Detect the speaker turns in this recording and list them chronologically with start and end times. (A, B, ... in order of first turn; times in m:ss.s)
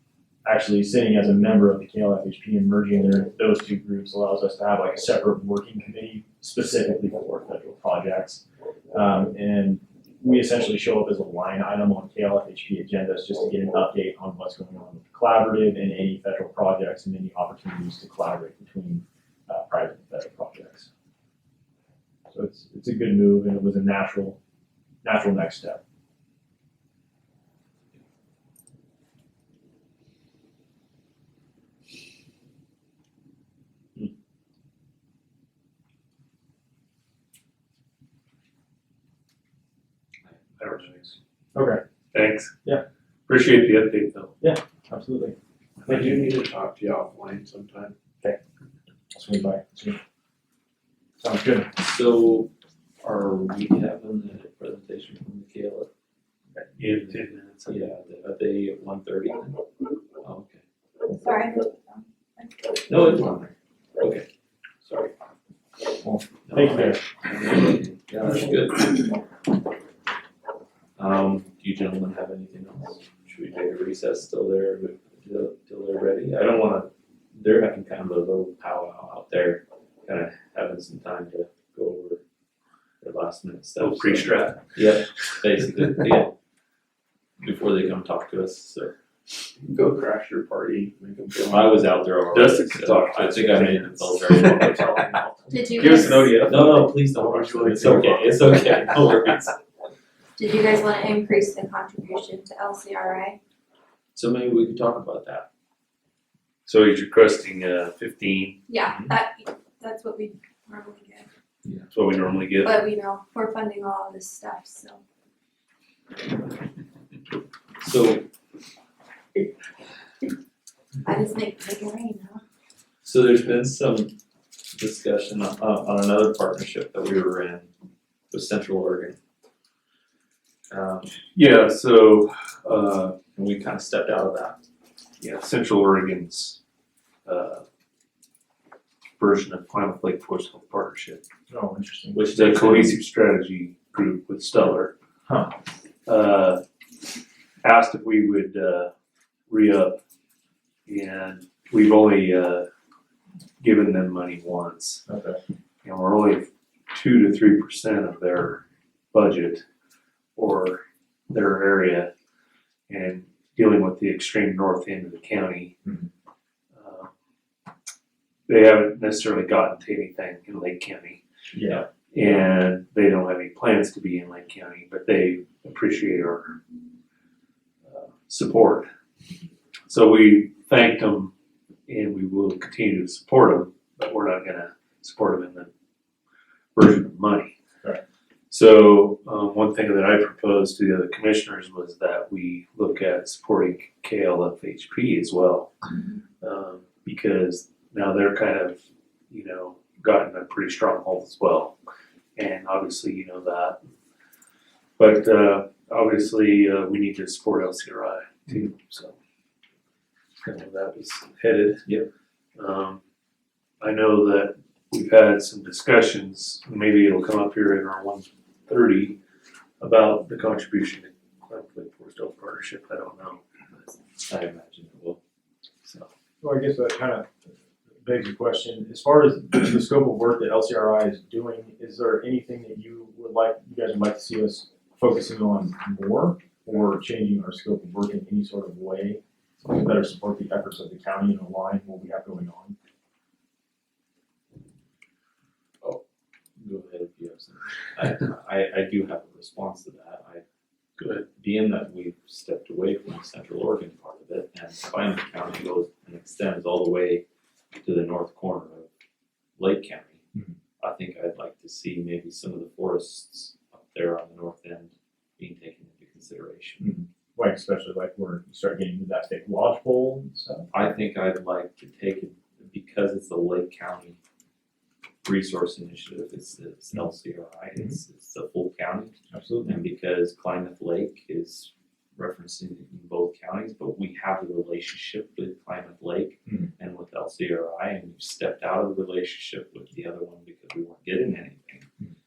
0:00.4-0:20.9 A
0:22.3-0:24.4 A
0:25.0-0:25.8 A
0:40.6-0:41.2 B
0:41.6-0:41.8 A
0:42.1-0:42.6 B
0:43.3-0:44.3 B
0:44.4-0:45.4 A
0:45.8-0:48.0 C
0:45.9-0:46.1 A
0:49.1-0:50.0 A
0:51.2-0:51.7 A
0:51.8-0:52.5 D
0:53.0-0:55.9 D
0:56.8-0:57.8 B
0:57.7-0:59.6 D
1:00.2-1:00.6 D
1:01.1-1:02.9 E
1:02.9-1:04.3 D
1:04.8-1:05.1 D
1:06.0-1:07.0 A
1:06.4-1:09.2 D
1:11.0-1:22.2 D
1:23.0-1:26.3 D
1:23.8-1:25.0 B
1:27.4-1:29.0 D
1:29.6-1:31.8 C
1:31.5-1:39.5 D
1:32.3-1:35.2 B
1:35.5-1:36.3 E
1:35.7-1:36.6 B
1:36.6-1:39.0 C
1:40.4-1:43.4 E
1:44.2-1:45.5 D
1:46.7-1:48.6 B
1:48.7-1:51.3 E
1:48.9-1:49.1 D
1:51.9-1:52.8 B
1:52.6-1:55.0 E
1:57.8-1:58.3 D
2:01.0-2:02.4 E
2:03.0-2:04.2 D
2:04.7-2:07.7 D
2:08.3-2:09.2 D
2:10.7-2:11.2 D
2:11.3-2:13.2 B
2:13.4-2:14.6 D
2:15.2-2:16.6 B
2:17.2-2:17.6 B
2:19.2-2:21.2 B
2:21.5-2:22.2 A
2:22.1-2:23.0 D
2:22.3-2:24.9 B
2:25.3-2:25.5 A
2:26.1-2:26.6 B
2:27.6-2:28.9 B
2:29.5-2:30.0 B
2:30.9-2:32.7 B
2:33.6-2:35.0 B
2:35.1-2:35.4 A
2:35.8-2:39.6 B
2:40.4-2:42.1 B
2:42.9-2:45.8 B
2:46.7-2:47.1 B
2:48.5-2:51.2 B
2:51.5-2:51.8 A
2:52.1-2:56.6 B
2:57.8-2:58.9 B
2:59.9-3:01.3 B
3:01.9-3:05.7 B
3:06.8-3:07.5 B
3:08.5-3:15.7 B
3:16.4-3:18.8 B
3:19.3-3:21.8 B
3:22.4-3:23.8 B
3:25.0-3:29.2 B
3:30.4-3:31.8 B
3:32.6-3:33.0 B
3:33.8-3:39.2 B
3:39.8-3:44.0 B
3:44.3-3:45.2 D
3:46.4-3:47.3 A
3:48.0-4:02.8 A
4:06.6-4:10.4 D
4:11.0-4:11.2 B
4:11.4-4:17.2 D
4:17.8-4:18.9 D
4:19.6-4:20.2 D
4:20.8-4:27.0 D
4:26.8-4:30.7 A
4:30.7-4:34.2 D
4:35.2-4:51.9 D
4:39.3-4:39.8 A